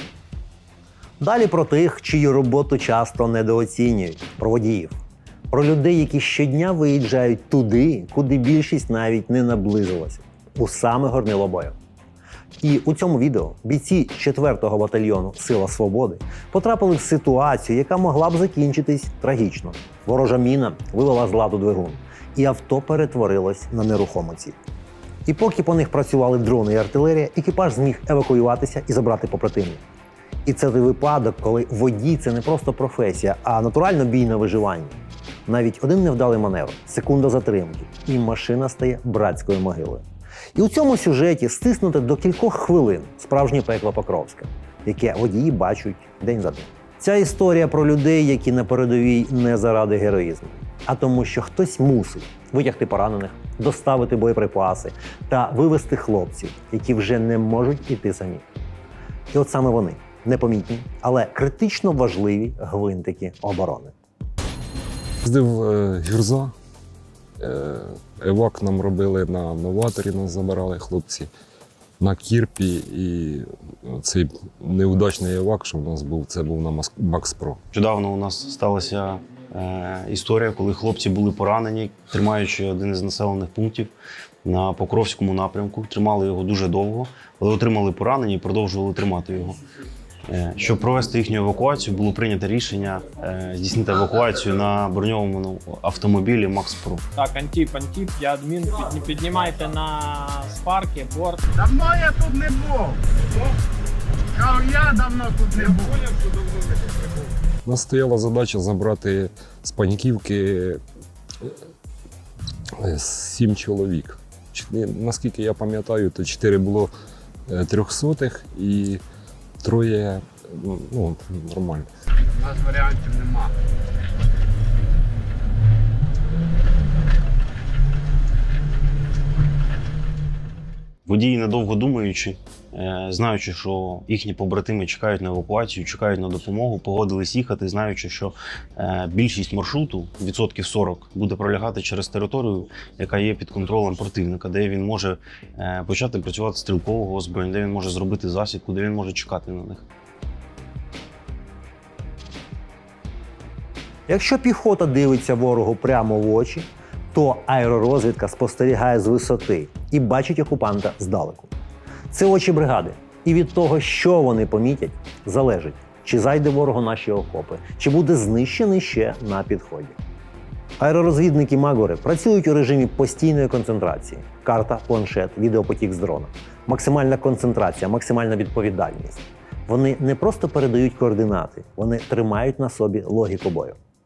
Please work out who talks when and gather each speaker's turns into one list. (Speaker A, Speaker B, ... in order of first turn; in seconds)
Speaker A: 1.2-5.0, 5.5-11.8, 12.6-24.6, 25.2-29.8, 30.4-58.4, 59.3-63.9, 154.1-161.5, 162.1-169.9, 170.8-183.8
Speaker B: 65.2-66.5, 67.4-71.3, 72.0-77.6, 107.6-110.8, 112.8-116.9, 117.5-119.0, 119.6-121.9
Speaker C: 77.7-83.9, 84.4-89.6, 90.3-97.0, 131.1-149.8
Speaker D: 97.1-101.4
Speaker E: 101.5-103.0, 104.3-106.0, 122.3-123.5